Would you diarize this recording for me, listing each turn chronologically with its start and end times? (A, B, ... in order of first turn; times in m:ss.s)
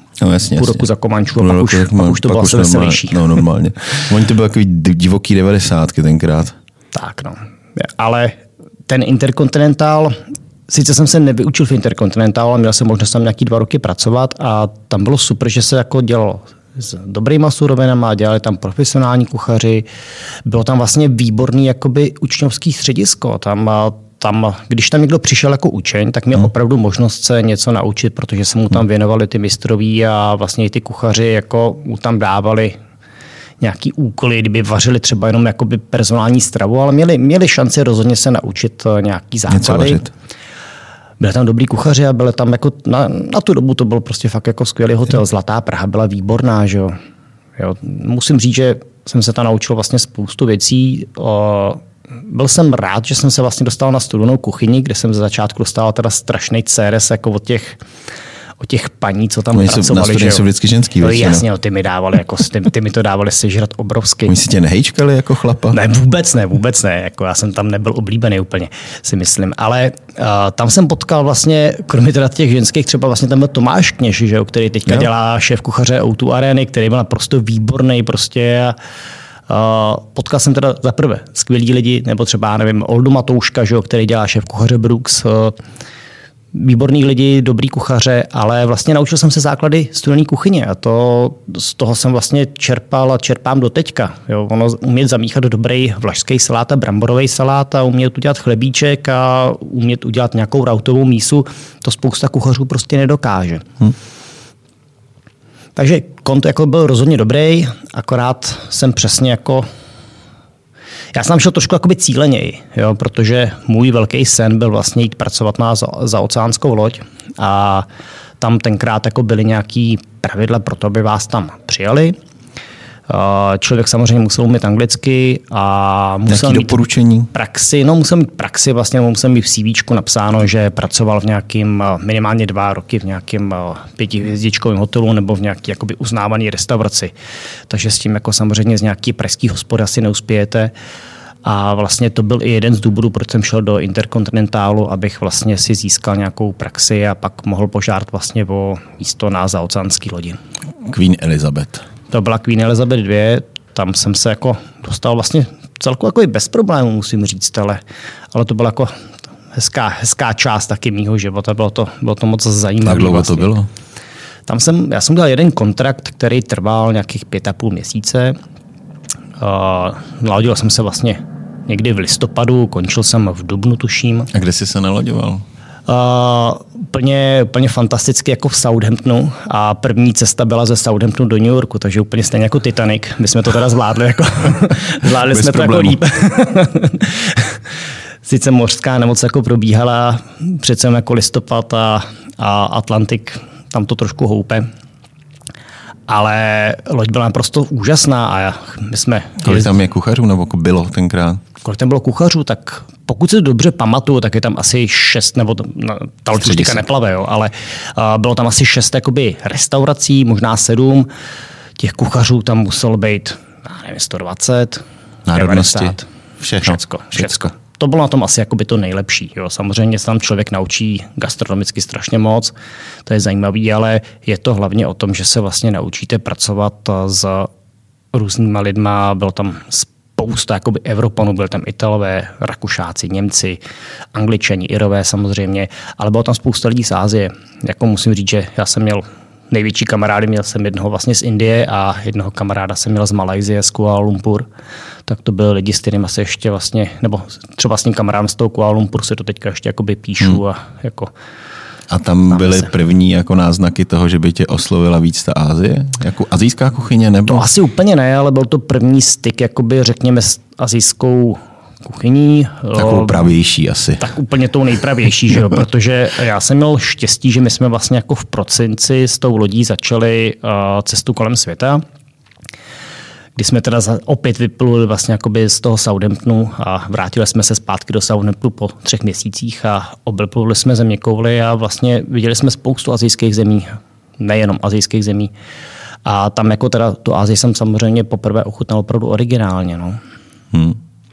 0:00.2-0:00.8 A
0:00.6-0:03.2 B
0:01.4-0:06.6 A
0:06.9-0:19.9 B
0:20.4-0:32.8 B
0:33.6-0:40.0 B
0:39.5-0:40.1 A
0:41.2-0:46.9 B
0:47.6-0:57.8 B
0:58.6-1:00.4 B
0:59.5-1:01.4 A
1:01.0-1:04.3 B
1:04.3-1:05.8 A
1:05.7-1:18.8 B
1:19.5-1:25.6 B
1:26.5-1:43.7 B
1:45.8-1:49.7 B
1:51.1-1:57.9 B
1:58.4-2:02.2 B
2:03.1-2:06.8 B
2:06.3-2:07.3 A
2:07.3-2:17.1 B
2:17.7-2:20.7 B
2:21.4-2:30.4 B
2:30.8-2:31.8 A
2:32.1-2:37.8 B
2:38.3-2:38.9 B
2:39.5-2:43.5 B
2:42.8-2:43.7 A
2:44.5-2:48.4 B
2:49.4-2:54.3 B
2:54.3-2:55.4 A
2:55.9-3:07.6 B
3:05.1-3:06.0 A
3:08.2-3:14.7 B
3:16.1-3:19.8 B
3:19.4-3:21.4 A
3:21.6-3:31.1 B
3:26.4-3:26.8 A
3:31.8-3:36.0 B
3:35.3-3:37.5 A
3:36.6-3:42.5 B
3:43.0-3:47.5 B
3:48.1-3:53.6 B
3:54.1-4:04.5 B
4:05.0-4:11.1 B
4:11.9-4:17.5 A
4:12.3-4:12.7 B
4:17.3-4:23.3 B
4:22.7-4:24.1 A
4:24.0-4:31.8 B
4:33.4-4:45.3 B
4:46.0-4:50.0 B
4:50.5-4:50.8 A